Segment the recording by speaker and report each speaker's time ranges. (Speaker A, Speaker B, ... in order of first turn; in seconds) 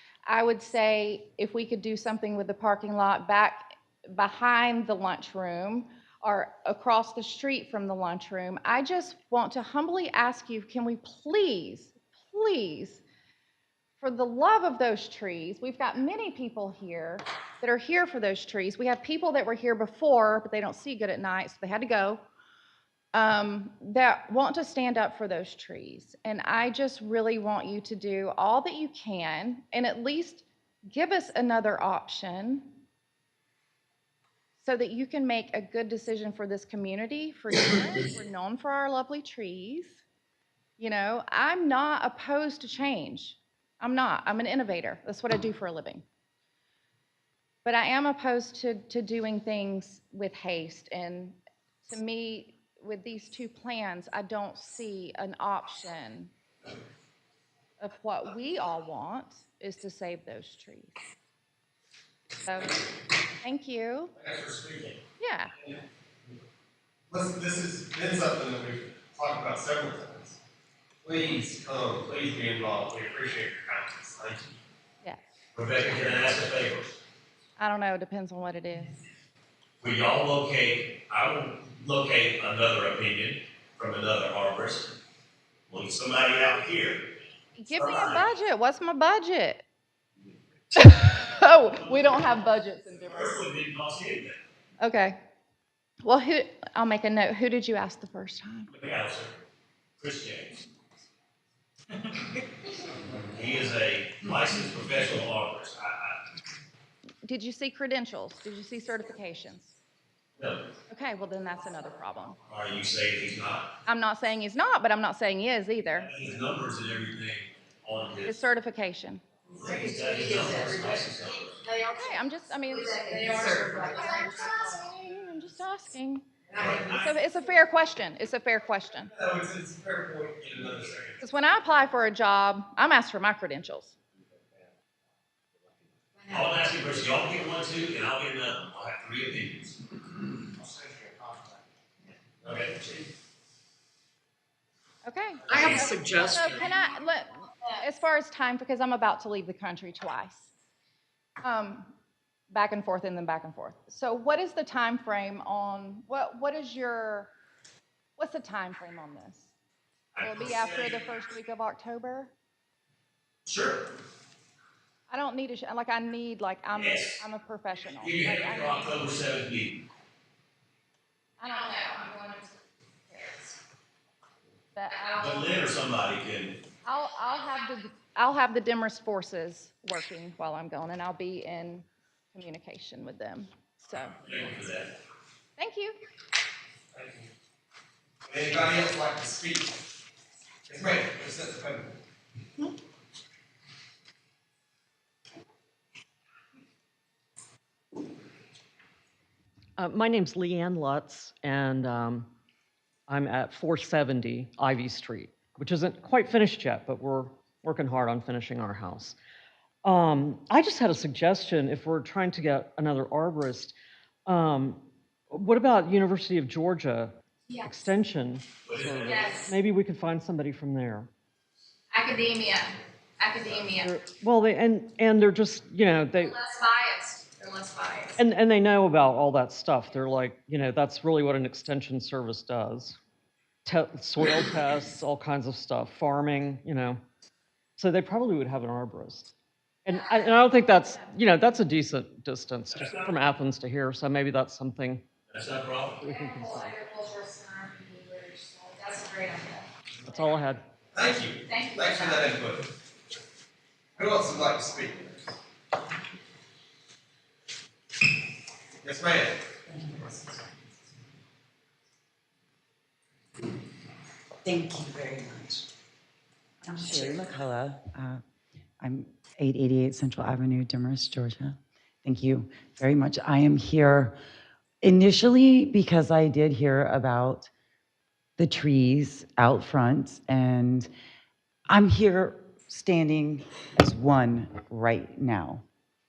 Speaker A: 0.3-13.0, 14.0-22.2, 23.1-32.7, 34.6-40.0, 40.8-46.0, 47.6-56.3, 57.8-61.0, 62.4-62.8, 63.4-64.1, 65.2-65.5, 77.6-78.9, 87.6-89.6, 90.7-93.4, 94.8-95.2, 96.0-98.7, 107.2-109.7, 110.9-112.4, 113.8-116.1, 118.2-119.2, 121.8-129.1, 131.2-133.9, 145.0-150.5, 151.4-151.9, 152.5-157.3, 158.2-159.5, 160.2-162.3, 165.1-169.1, 171.4-172.6, 173.1-173.6, 174.7-175.5, 176.8-184.4, 185.6-186.0, 221.9-223.9
Speaker B: 64.2-65.0, 67.1-70.4, 71.0-74.5, 129.1-131.2, 140.6-141.5, 186.9-187.3, 188.2-189.9, 190.7-192.0, 250.9-252.7, 254.0-255.3, 258.8-259.4
Speaker C: 75.5-76.9, 79.8-84.9, 85.7-87.1, 87.7-88.2, 93.2-94.4, 98.7-99.3, 100.0-100.6, 103.2-106.2, 110.4-110.6, 112.5-113.7, 116.1-118.4, 119.5-121.7, 126.5-127.1, 136.3-139.8, 142.4-142.8, 145.5-146.0, 160.1-161.0, 163.4-163.8, 166.7-167.2, 168.0-169.8, 175.2-176.6, 184.2-184.9, 218.7-219.3, 242.8-243.1, 245.3-246.0
Speaker D: 119.6-121.1, 121.6-124.7, 126.5-126.8, 219.1-219.4, 226.2-228.2, 246.0-249.7, 251.4-252.3
Speaker E: 145.5-146.7, 199.8-202.3, 203.1-209.2, 209.8-213.7, 214.2-221.1, 223.8-226.4, 228.2-233.0, 233.6-237.0, 237.8-239.3, 239.8-245.0, 246.0-246.8, 250.1-250.6
Speaker F: 259.8-260.4, 264.4-265.7, 266.6-268.2, 268.8-274.1, 274.8-277.5, 278.4-280.9, 281.7-285.6